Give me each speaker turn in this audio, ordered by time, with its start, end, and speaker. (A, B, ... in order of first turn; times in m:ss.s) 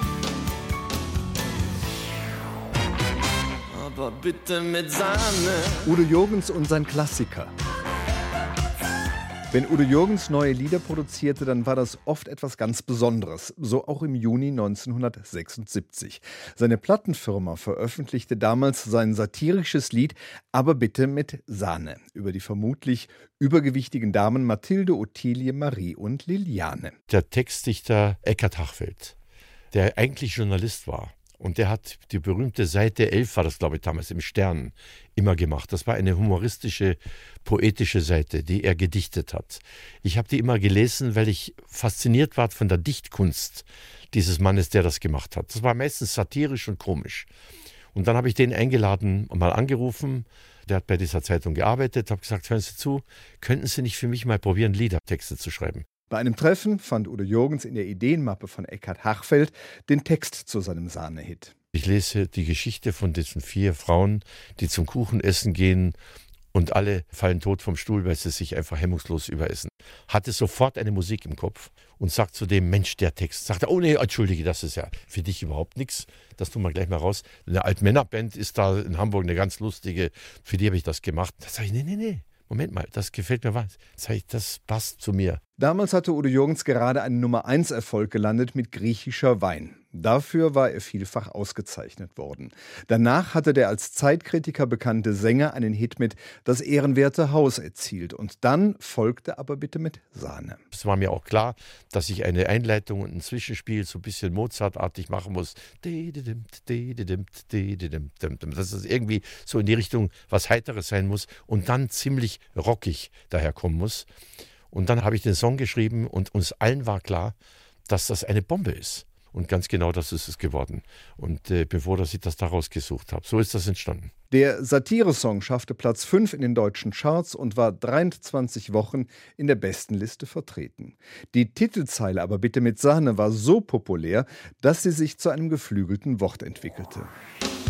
0:03.7-0:05.8 A
0:05.8-0:07.5 B
0:09.5-0:27.0 B
0:27.1-0:29.2 C
0:29.7-0:47.3 C
0:47.9-0:55.8 C
0:56.1-1:01.6 B
1:01.8-1:06.0 C
1:06.5-1:25.4 C
1:25.6-1:40.6 B
1:40.7-1:54.1 C
1:54.7-1:57.4 C
1:57.9-2:04.1 C
2:04.3-2:17.1 B